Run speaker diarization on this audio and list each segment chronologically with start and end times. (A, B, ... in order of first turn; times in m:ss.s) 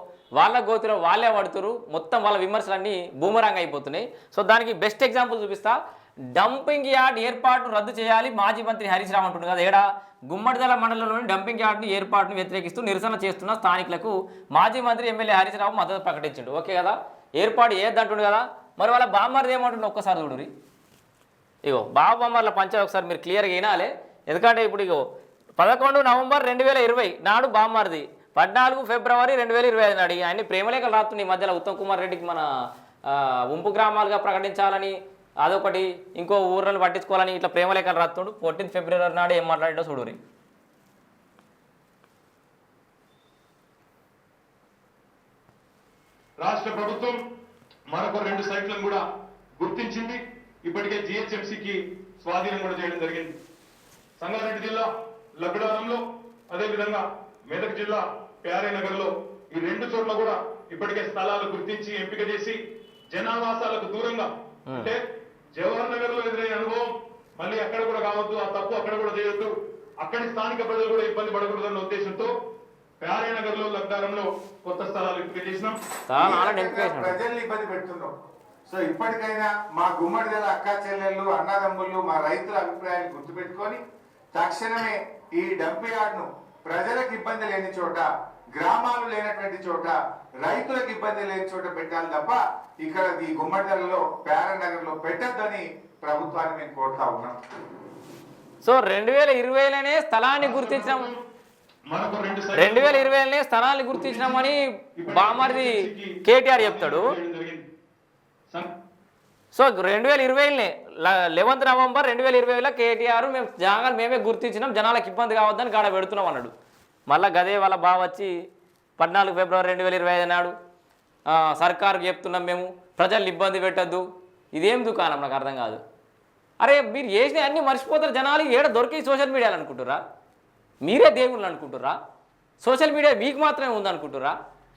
0:00.4-0:05.8 A
0:06.4-0:20.5 A
0:21.7-0:25.0 A
0:25.6-0:32.5 A
0:33.0-0:40.2 A
0:46.4-0:47.2 B
0:47.9-0:49.0 B
0:49.6-0:53.4 B
0:54.2-1:02.6 B
1:03.1-1:05.0 B
1:05.6-1:12.3 B
1:13.0-1:15.8 B
1:16.1-1:17.2 A
1:16.2-1:18.1 C
1:18.7-1:23.8 C
1:24.3-1:37.3 C
1:38.6-1:41.1 A
1:40.4-1:41.2 B
1:41.9-1:43.1 B
1:42.5-1:47.1 A
1:44.0-1:47.6 B
1:49.5-1:56.5 A
1:57.1-1:58.3 A
1:59.0-2:00.5 A
2:01.3-2:05.8 A
2:06.6-2:10.0 A
2:10.8-2:12.0 A
2:12.6-2:14.3 A